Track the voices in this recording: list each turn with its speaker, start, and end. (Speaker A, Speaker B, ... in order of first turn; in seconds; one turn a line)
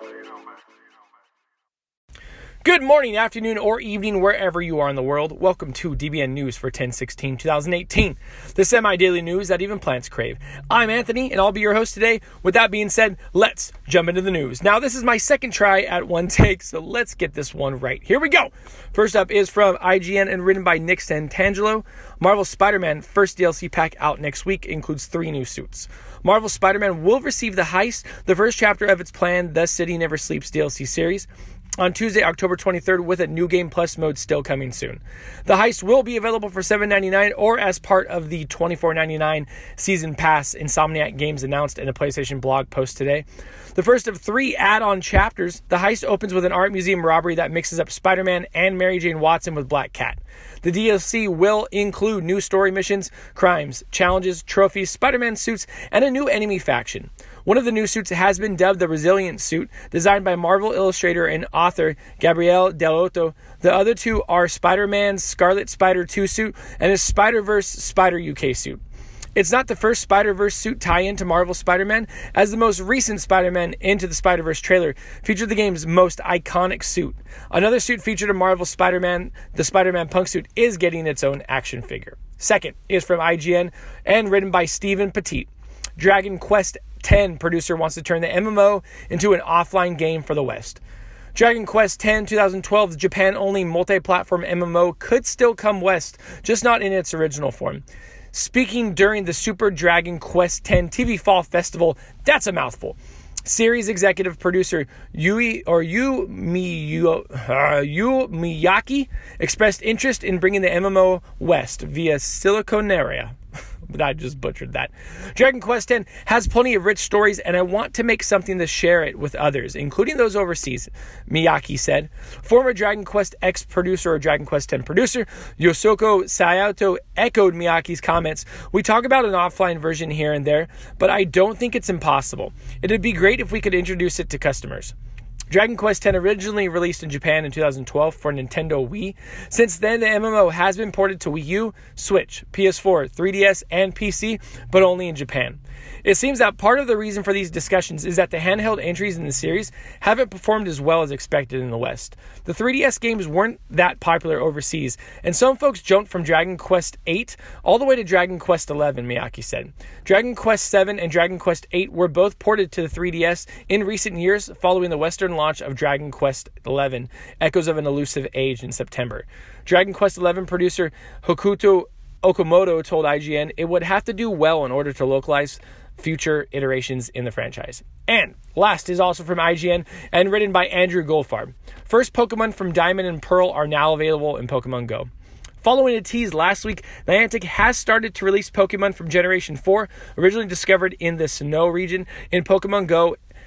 Speaker A: 2.6-31.3
Speaker A: 31.8-68.8
Speaker A: 69.3-90.8
Speaker A: 91.3-113.3
Speaker A: 113.9-134.9
Speaker A: 135.5-185.1
Speaker A: 185.6-193.2